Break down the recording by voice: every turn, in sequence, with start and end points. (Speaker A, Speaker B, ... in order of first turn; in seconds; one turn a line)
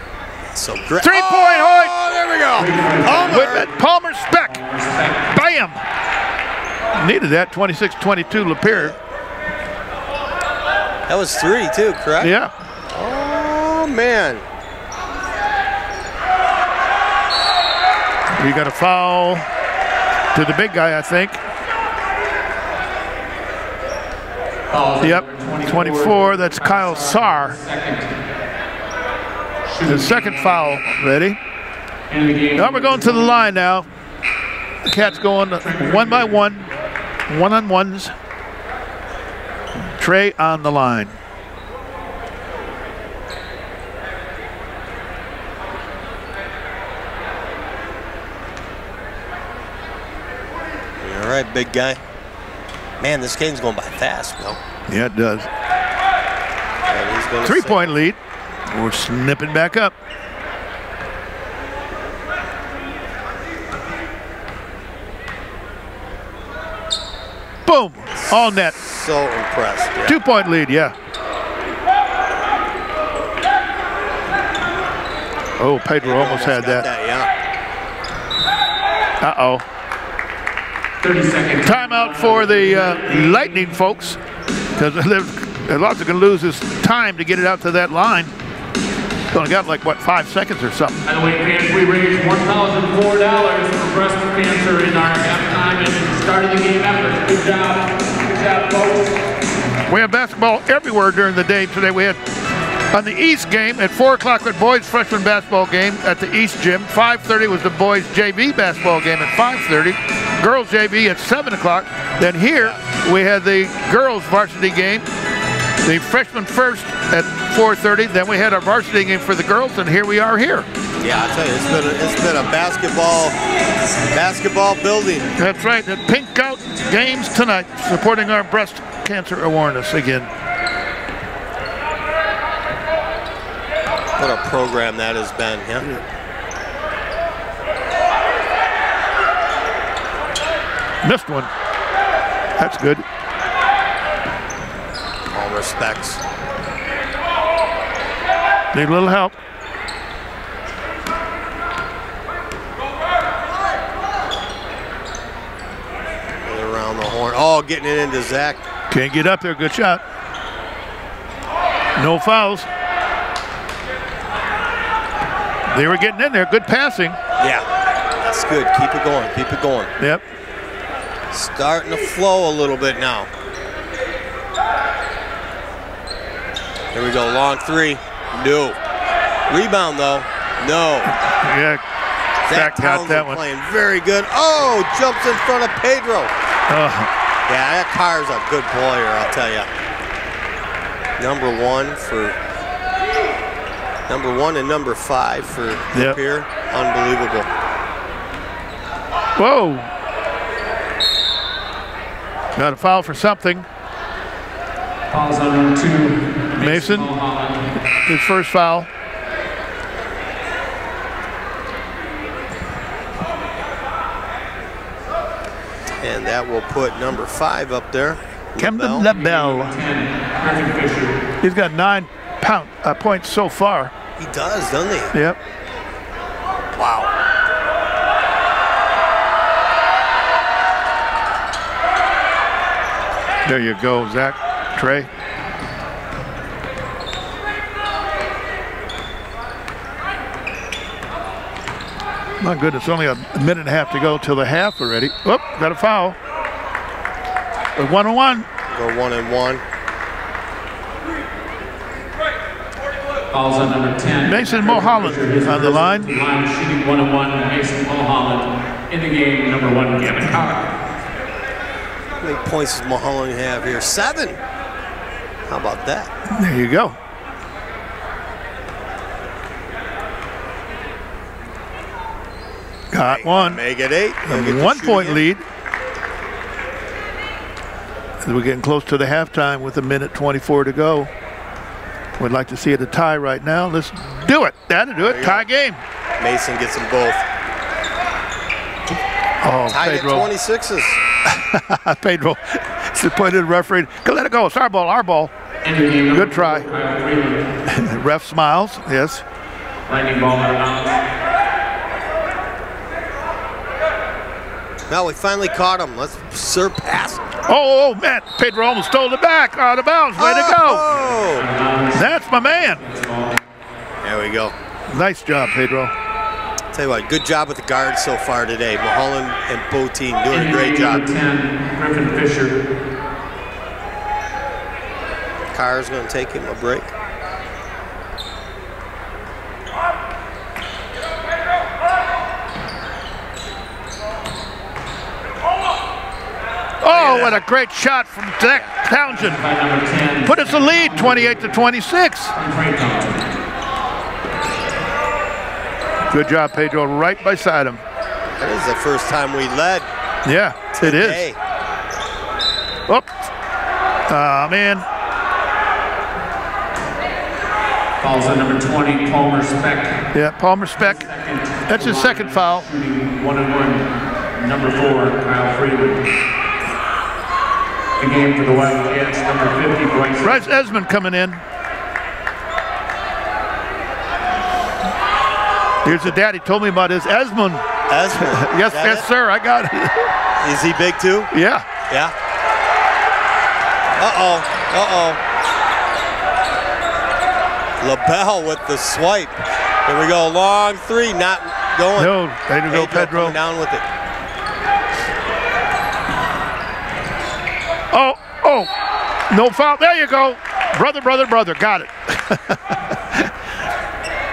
Speaker A: 0.5-3.7
Speaker B: 1.0-1.9
Speaker C: 2.5-3.7
Speaker B: 3.3-4.6
Speaker C: 4.3-5.4
Speaker B: 5.3-5.8
Speaker B: 7.0-8.9
Speaker A: 8.7-8.9
Speaker A: 11.1-12.3
Speaker B: 12.2-12.5
Speaker A: 12.9-14.4
Speaker B: 18.4-19.5
Speaker B: 20.3-21.4
Speaker C: 24.7-28.2
Speaker B: 25.0-27.6
Speaker C: 29.6-30.9
Speaker B: 29.8-31.4
Speaker C: 32.1-33.4
Speaker B: 32.5-33.9
Speaker B: 34.8-36.7
Speaker C: 35.6-36.4
Speaker B: 37.3-38.1
Speaker B: 40.0-41.2
Speaker A: 51.0-52.0
Speaker A: 53.0-54.6
Speaker B: 54.9-55.5
Speaker A: 56.9-57.9
Speaker B: 57.4-59.9
Speaker B: 67.7-68.8
Speaker A: 68.2-70.2
Speaker B: 70.0-70.9
Speaker B: 75.6-76.9
Speaker A: 76.0-77.3
Speaker B: 79.2-79.6
Speaker C: 81.0-83.7
Speaker B: 81.6-84.2
Speaker B: 84.8-88.3
Speaker B: 89.3-91.0
Speaker C: 91.0-99.2
Speaker B: 99.9-102.2
Speaker B: 102.9-115.1
Speaker B: 115.8-120.7
Speaker A: 121.0-123.3
Speaker A: 124.1-125.3
Speaker B: 125.4-130.3
Speaker A: 134.2-136.0
Speaker B: 141.0-141.5
Speaker B: 142.6-143.0
Speaker A: 145.3-146.2
Speaker B: 148.7-149.4
Speaker A: 156.4-158.6
Speaker B: 158.9-160.0
Speaker B: 162.0-162.7
Speaker B: 165.7-167.2
Speaker A: 167.4-167.7
Speaker A: 168.2-169.9
Speaker B: 170.0-170.2
Speaker A: 171.3-173.3
Speaker A: 176.9-178.8
Speaker A: 179.5-181.1
Speaker B: 181.1-181.8
Speaker A: 182.4-186.3
Speaker B: 182.5-183.4
Speaker B: 186.7-187.1
Speaker A: 187.5-189.7
Speaker A: 191.2-192.3
Speaker A: 194.1-197.5
Speaker B: 199.4-199.9
Speaker B: 202.6-203.7
Speaker C: 205.1-207.7
Speaker B: 206.6-207.1
Speaker B: 208.1-208.9
Speaker A: 216.0-219.1
Speaker B: 218.6-219.8
Speaker C: 219.0-221.2
Speaker B: 221.4-223.9
Speaker A: 224.2-225.1
Speaker B: 225.1-225.4
Speaker A: 226.7-227.1
Speaker B: 233.4-235.1
Speaker B: 242.4-246.2
Speaker B: 247.8-248.5
Speaker A: 248.7-249.6
Speaker C: 253.3-260.7
Speaker B: 254.2-256.1
Speaker A: 262.2-264.4
Speaker A: 265.5-266.1
Speaker B: 266.3-267.0
Speaker B: 272.9-273.6
Speaker A: 273.0-275.2
Speaker B: 274.2-275.4
Speaker B: 278.2-281.1
Speaker B: 282.2-285.8
Speaker A: 285.0-285.4
Speaker A: 286.2-287.2
Speaker B: 289.4-290.3
Speaker A: 289.7-291.0
Speaker B: 291.2-295.3
Speaker C: 295.6-297.5
Speaker B: 296.1-296.6
Speaker B: 297.7-299.2
Speaker C: 299.9-301.0
Speaker A: 304.9-307.3
Speaker B: 307.5-310.9
Speaker A: 310.2-311.4
Speaker C: 311.1-313.4
Speaker B: 311.9-312.8
Speaker A: 314.0-314.5
Speaker B: 314.9-315.9
Speaker A: 316.7-321.1
Speaker C: 320.3-322.6
Speaker A: 325.5-326.9
Speaker B: 336.8-339.4
Speaker A: 336.9-337.4
Speaker C: 339.1-341.6
Speaker B: 340.2-342.3
Speaker C: 342.3-343.4
Speaker B: 346.1-347.8
Speaker A: 348.4-349.9
Speaker B: 350.2-351.2
Speaker A: 350.8-351.4
Speaker B: 354.1-354.8
Speaker C: 358.0-360.0
Speaker B: 360.1-361.0
Speaker C: 360.8-366.1
Speaker B: 361.7-362.7
Speaker C: 368.0-370.5
Speaker B: 370.2-371.4
Speaker B: 375.8-380.1
Speaker A: 377.9-379.1
Speaker A: 380.4-381.3
Speaker B: 381.3-381.6
Speaker A: 381.9-382.1
Speaker A: 384.0-385.2
Speaker A: 387.8-392.1
Speaker B: 391.9-393.4
Speaker A: 392.7-393.8
Speaker B: 397.9-398.7
Speaker B: 399.3-403.3